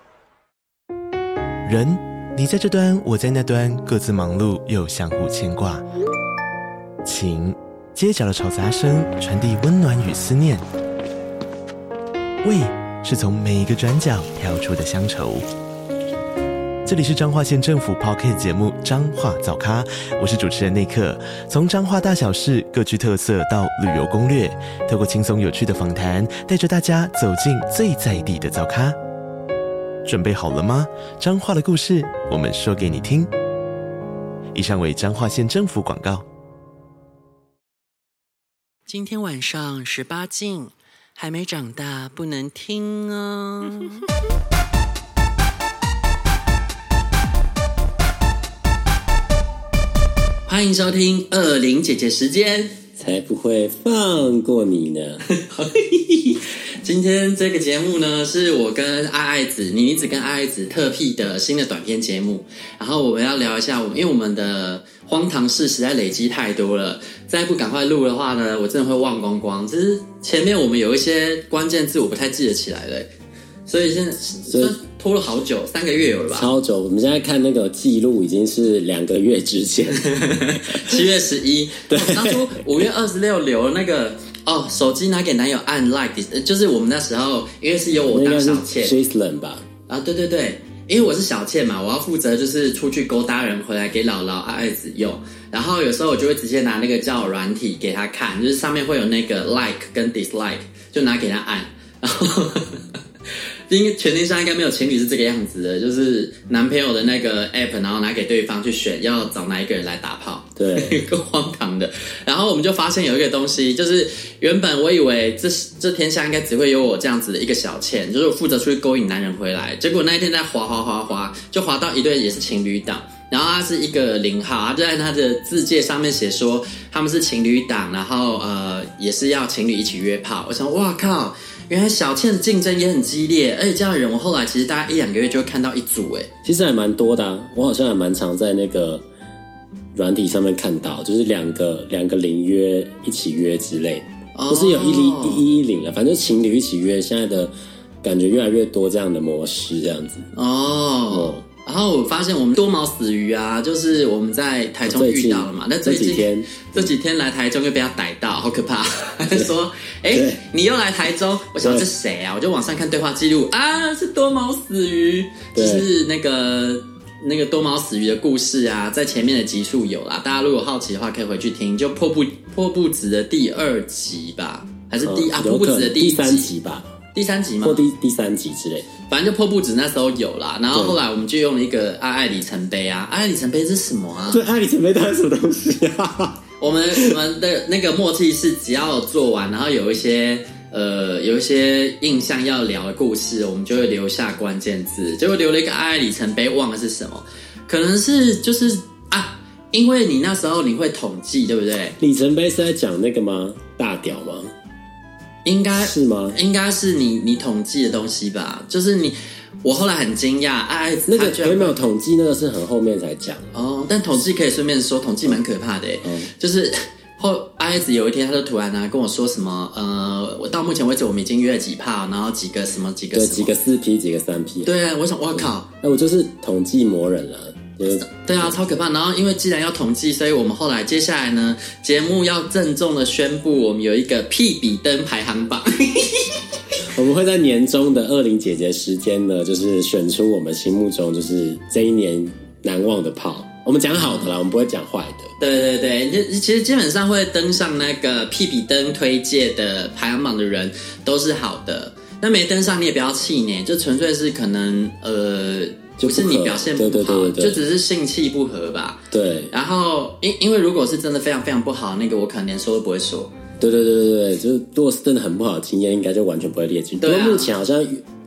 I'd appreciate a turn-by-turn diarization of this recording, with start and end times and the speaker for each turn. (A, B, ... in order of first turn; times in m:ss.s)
0:01.6-0:05.8 A
0:07.0-0:10.6 A
0:12.4-0:15.4 A
0:16.8-0:29.0 A
0:30.0-0:33.3 A
0:34.5-0:36.2 A
0:38.9-0:44.0 B
0:50.5-0:52.7 B
0:53.0-0:55.2 C
0:55.3-1:13.1 B
1:13.7-1:16.5 B
1:14.5-1:14.7 C
1:16.3-1:20.1 C
1:19.9-1:28.9 B
1:20.6-1:21.0 C
1:21.9-1:22.8 C
1:28.1-1:29.6 C
1:29.9-1:42.8 B
1:43.7-2:16.3 B
1:50.6-1:51.0 C
2:16.4-2:19.0 C
2:19.9-2:27.5 C
2:24.3-2:25.4 B
2:28.0-2:30.3 C
2:30.3-2:56.5 B
2:31.1-2:31.4 C
2:34.8-2:36.9 C
2:40.1-2:40.4 C
2:41.6-2:41.8 C
2:45.5-2:45.9 C
2:55.0-2:56.9 C
2:57.1-2:57.8 B
2:57.6-2:58.9 C
2:59.1-3:04.4 B
3:00.7-3:01.0 C
3:04.3-3:06.4 C
3:06.6-3:22.0 B
3:22.0-3:24.5 C
3:25.4-3:31.8 B
3:25.8-3:26.4 C
3:31.1-3:33.5 C
3:33.5-3:43.6 B
3:36.0-3:36.3 C
3:43.1-3:44.7 C
3:44.6-3:45.7 B
3:45.3-3:48.5 C
3:47.9-3:56.4 B
3:56.8-4:05.3 C
4:04.0-4:04.3 B
4:05.4-4:23.3 B
4:16.0-4:17.6 C
4:19.1-4:19.5 C
4:23.6-4:28.0 C
4:27.0-4:27.5 B